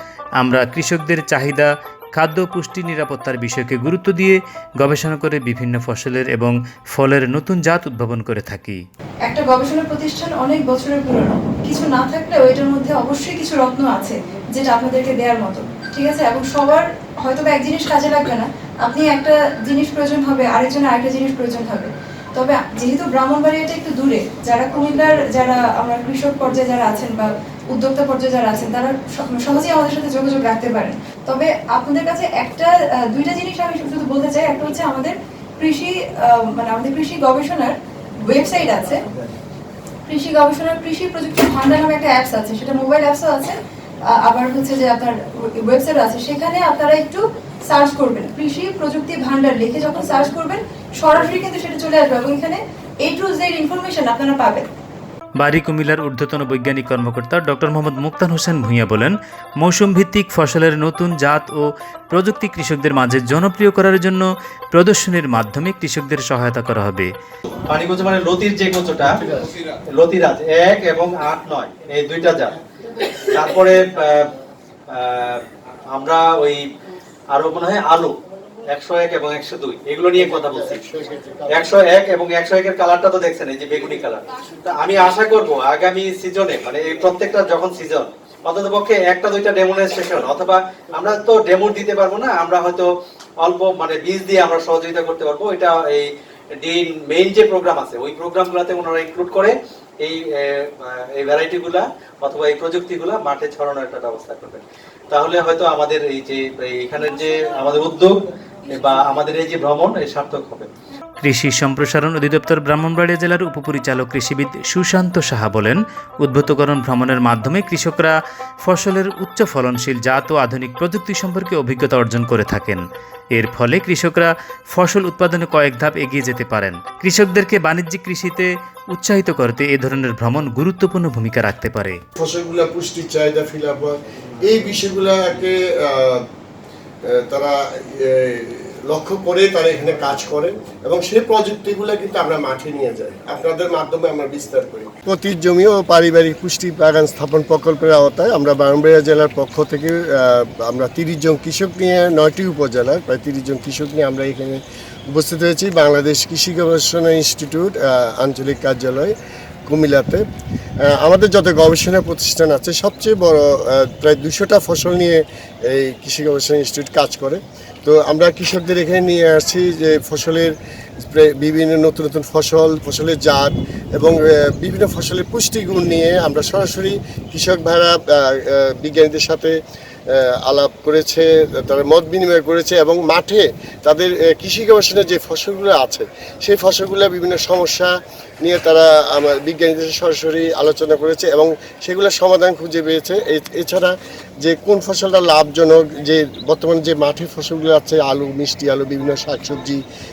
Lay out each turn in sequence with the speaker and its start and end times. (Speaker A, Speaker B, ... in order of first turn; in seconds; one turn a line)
Speaker A: 0.4-8.8
Speaker B: 9.3-39.1
Speaker B: 40.1-54.7
Speaker A: 55.4-67.1
Speaker C: 67.7-69.4
Speaker C: 70.0-74.3
Speaker C: 74.9-76.7
Speaker C: 77.3-78.1
Speaker C: 78.7-80.8
Speaker D: 80.2-81.8
Speaker C: 81.5-108.1
Speaker C: 108.7-110.7
Speaker A: 111.2-122.8
Speaker A: 123.3-132.0
Speaker D: 132.2-136.3
Speaker D: 137.1-159.1
Speaker D: 159.7-160.2
Speaker D: 160.9-170.5
Speaker D: 171.1-179.6
Speaker D: 180.1-199.8